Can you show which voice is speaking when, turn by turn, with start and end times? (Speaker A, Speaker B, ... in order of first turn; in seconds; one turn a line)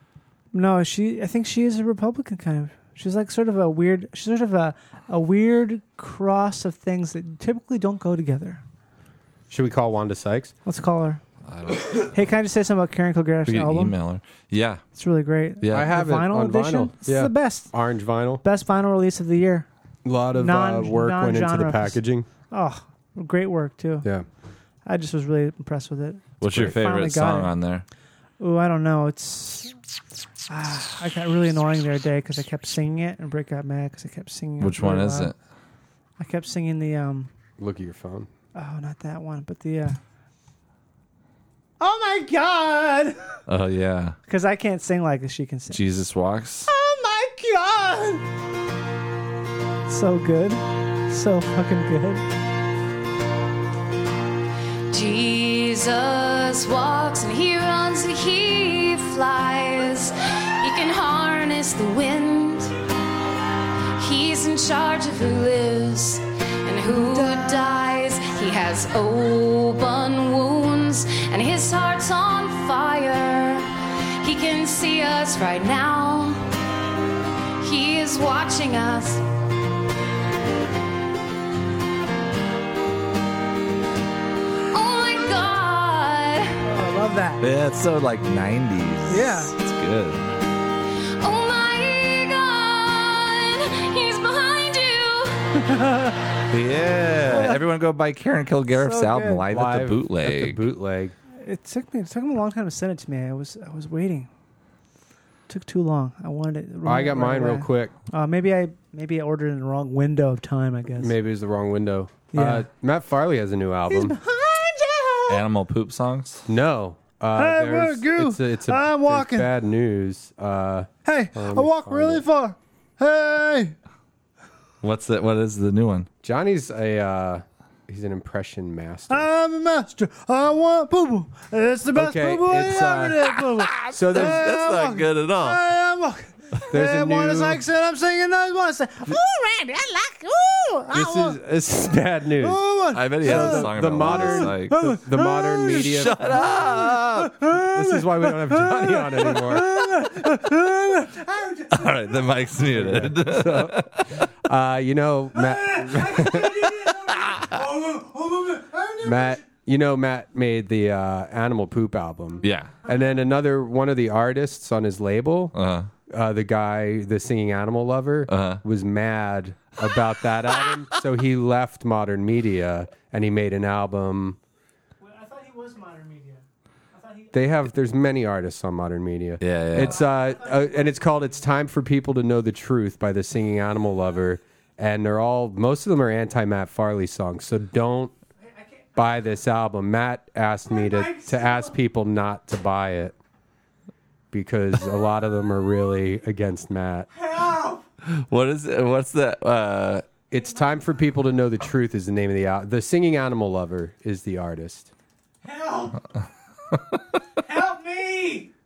Speaker A: 0.5-8.6
Speaker B: 9.5-10.5
Speaker A: 10.7-11.2
Speaker C: 11.4-12.1
Speaker A: 12.1-13.9
Speaker C: 13.5-14.8
Speaker A: 15.0-17.7
Speaker C: 15.6-15.9
Speaker B: 15.7-18.4
Speaker A: 18.4-19.7
Speaker B: 20.1-22.3
Speaker A: 20.4-22.0
Speaker A: 22.5-24.1
Speaker A: 24.9-27.5
Speaker C: 26.4-27.9
Speaker A: 28.4-29.7
Speaker A: 30.5-35.3
Speaker C: 34.6-35.4
Speaker A: 36.2-37.3
Speaker B: 37.6-38.3
Speaker A: 38.5-40.0
Speaker A: 41.8-43.4
Speaker C: 43.5-44.1
Speaker A: 44.3-45.8
Speaker C: 45.7-46.7
Speaker A: 46.7-48.2
Speaker A: 49.9-52.2
Speaker D: 54.9-62.7
Speaker D: 64.0-73.7
Speaker A: 67.0-67.5
Speaker D: 74.2-76.4
Speaker D: 77.6-79.2
Speaker D: 84.7-86.6
Speaker A: 86.7-87.4
Speaker C: 87.4-90.2
Speaker A: 89.1-89.5
Speaker D: 91.2-95.6
Speaker A: 95.6-96.2
Speaker C: 96.5-100.6
Speaker A: 97.3-97.6
Speaker A: 98.7-99.4
Speaker B: 99.5-101.1
Speaker A: 101.4-104.3
Speaker A: 105.5-111.1
Speaker B: 106.8-107.9
Speaker B: 111.0-114.2
Speaker A: 112.3-112.7
Speaker A: 113.9-115.4
Speaker C: 115.3-116.5
Speaker B: 116.5-122.2
Speaker A: 117.3-119.5
Speaker A: 121.0-123.8
Speaker C: 124.8-126.1
Speaker B: 126.2-129.3
Speaker A: 129.1-141.4
Speaker B: 131.9-133.2
Speaker C: 133.7-135.6
Speaker B: 133.9-134.4
Speaker B: 136.7-137.6
Speaker B: 140.9-142.6
Speaker A: 142.4-145.9
Speaker C: 142.9-144.8
Speaker B: 143.2-146.4
Speaker C: 145.8-147.3
Speaker A: 146.4-152.2
Speaker B: 147.5-149.9
Speaker C: 151.7-154.2
Speaker B: 152.8-153.8
Speaker B: 154.4-156.9
Speaker A: 155.3-159.4
Speaker B: 159.0-165.5
Speaker C: 162.4-162.7
Speaker C: 165.6-165.9
Speaker B: 166.1-174.4
Speaker C: 168.3-168.6
Speaker A: 175.0-176.4
Speaker A: 176.9-177.3
Speaker B: 177.3-188.1
Speaker C: 179.4-180.0
Speaker A: 180.0-181.0
Speaker B: 188.9-193.2
Speaker A: 190.7-191.8
Speaker B: 194.3-197.1
Speaker A: 197.2-197.8
Speaker C: 198.0-200.1
Speaker B: 200.3-204.9
Speaker A: 205.4-206.0
Speaker A: 207.4-208.5